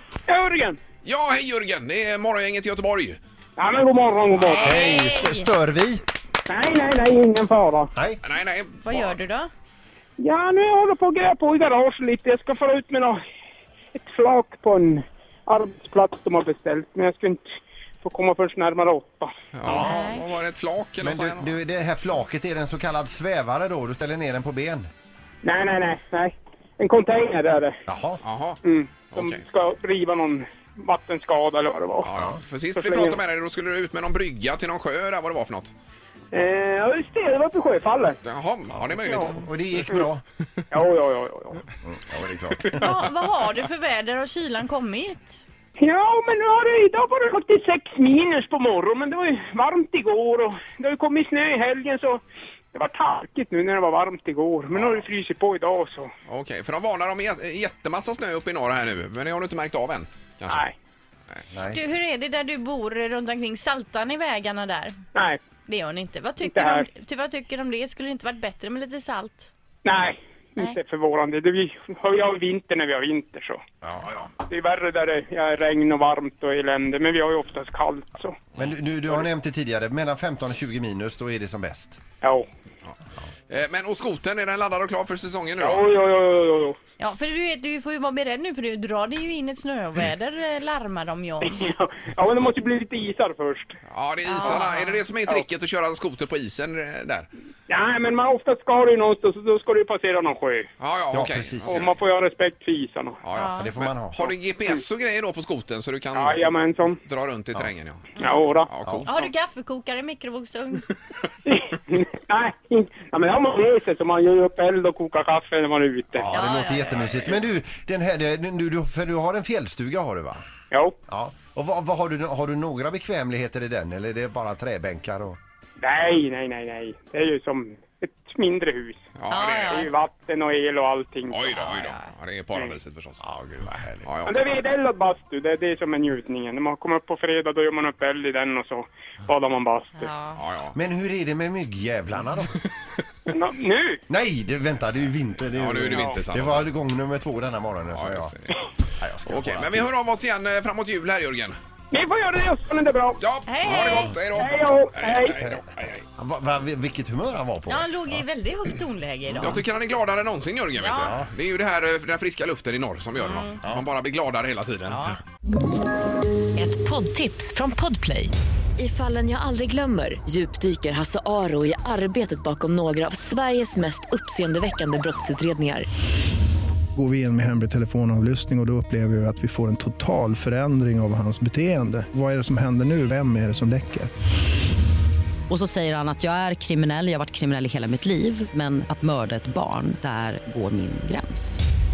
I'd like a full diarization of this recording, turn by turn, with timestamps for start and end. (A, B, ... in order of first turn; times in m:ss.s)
0:00.3-0:00.8 A
0:01.0-0:03.2 B
0:03.6-0:04.8 A
0:04.4-0:06.0 C
0:04.5-0:05.5 D
0:06.5-0:07.9 A
0:08.0-0:08.2 C
0:08.2-0:09.2 B
0:08.8-0:09.5 D
0:10.2-0:13.2 A
0:14.0-0:19.3 A
0:19.5-0:21.5 B
0:19.7-0:20.1 C
0:19.7-0:20.2 D
0:21.0-0:24.9 C
0:25.4-0:27.8 A
0:27.9-0:28.2 C
0:28.2-0:28.6 B
0:28.6-0:32.1 A
0:29.1-0:29.4 B
0:32.0-0:35.7 B
0:32.8-0:33.2 A
0:36.3-0:38.2 A
0:38.2-0:39.9 B
0:39.0-0:39.3 A
0:39.2-0:40.2 C
0:40.7-0:41.6 A
0:41.8-0:42.9 C
0:42.8-0:45.4 D
0:45.8-0:52.2 A
0:52.7-0:56.1 A
0:54.8-0:55.0 B
0:56.3-1:00.6 B
1:00.5-1:00.7 A
1:01.5-1:01.8 C
1:01.7-1:05.0 D
1:05.1-1:05.4 A
1:05.6-1:09.4 D
1:06.4-1:06.9 A
1:09.8-1:13.6 A
1:14.4-1:18.4 A
1:18.6-1:22.0 C
1:23.5-1:25.8 B
1:25.6-1:26.8 A
1:27.0-1:31.6 D
1:31.4-1:33.8 A
1:33.9-1:37.3 B
1:34.2-1:35.0 D
1:37.7-1:40.7 A
1:40.8-1:41.9 B
1:41.1-1:41.8 C
1:41.6-1:43.2 A
1:43.2-1:48.1 B
1:43.3-1:43.7 D
1:43.6-1:44.3 C
1:46.1-1:47.0 A
1:48.2-1:48.4 D
1:48.2-1:48.7 A
1:48.7-1:49.3 B
1:48.8-1:49.1 C
1:49.1-1:50.9 D
1:51.4-1:56.3 A
1:56.2-2:00.4 C
1:56.3-1:57.4 D
2:00.7-2:01.0 A
2:01.1-2:05.4 C
2:05.8-2:09.0 A
2:09.2-2:09.8 B
2:09.3-2:09.8 D
2:09.7-2:11.7 A
2:11.3-2:13.2 B
2:13.2-2:14.1 C
2:14.0-2:14.3 B
2:14.2-2:20.1 A
2:20.0-2:20.4 D
2:20.4-2:20.7 B
2:20.7-2:22.5 C
2:23.3-2:24.0 A
2:24.1-2:28.3 C
2:25.5-2:26.7 B
2:25.9-2:26.2 A
2:27.9-2:28.7 B
2:29.0-2:29.9 C
2:29.2-2:31.6 B
2:31.9-2:33.2 A
2:33.2-2:36.0 B
2:33.4-2:34.2 D
2:33.7-2:34.1 C
2:34.3-2:35.4 A
2:35.4-2:38.2 C
2:37.7-2:39.6 D
2:39.3-2:45.2 B
2:39.3-2:39.6 C
2:40.7-2:41.1 D
2:41.0-2:41.3 C
2:43.2-2:43.6 D
2:44.9-2:45.2 D
2:46.6-2:55.8 E
2:56.9-3:04.1 F
3:05.5-3:11.6 G